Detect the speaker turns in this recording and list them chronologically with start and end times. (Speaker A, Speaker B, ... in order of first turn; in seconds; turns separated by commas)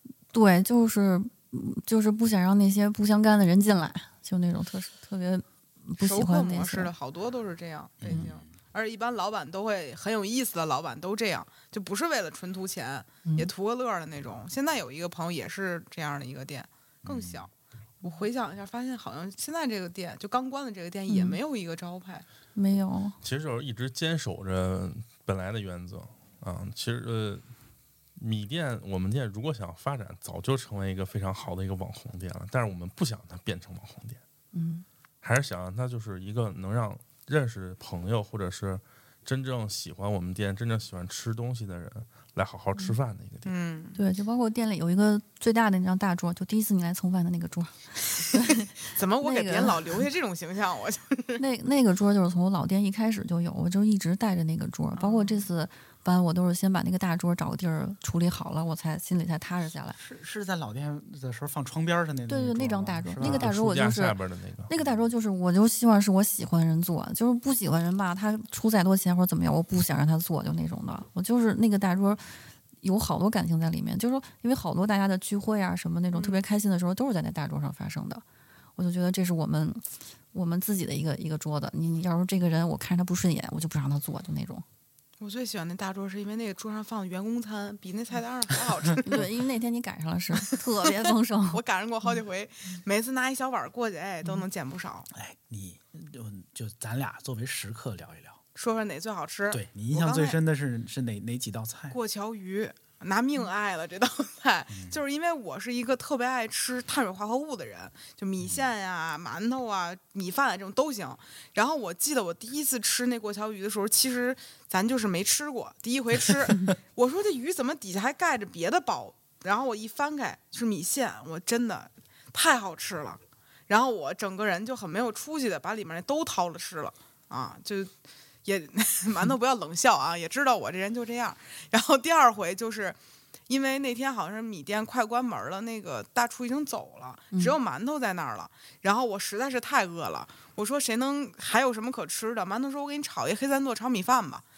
Speaker A: 0.3-6.9, Speaker B: 6.0-17.5, Speaker C: 8.0-8.5, Speaker A: 13.2-13.5, Speaker C: 17.0-17.5, Speaker B: 18.0-22.3, Speaker A: 21.1-21.4, Speaker A: 22.6-23.2, Speaker D: 23.2-27.4, Speaker D: 28.2-34.2, Speaker A: 34.5-34.9, Speaker D: 35.2-43.5, Speaker B: 43.5-44.0, Speaker A: 44.0-49.8, Speaker B: 48.9-51.4, Speaker A: 51.4-60.0, Speaker B: 55.0-55.5, Speaker C: 60.0-63.5, Speaker A: 62.3-64.2, Speaker D: 63.2-64.7, Speaker A: 64.7-72.3, Speaker C: 64.8-65.1, Speaker A: 72.8-78.2, Speaker B: 76.1-76.4, Speaker A: 78.8-79.8, Speaker A: 80.3-84.6, Speaker B: 85.2-89.3, Speaker A: 89.0-91.6, Speaker B: 91.5-95.1, Speaker C: 95.1-98.4, Speaker B: 98.5-100.4, Speaker C: 99.5-102.0, Speaker B: 101.9-127.9, Speaker C: 104.7-105.0, Speaker C: 108.4-108.7, Speaker B: 128.4-133.0, Speaker B: 133.5-144.4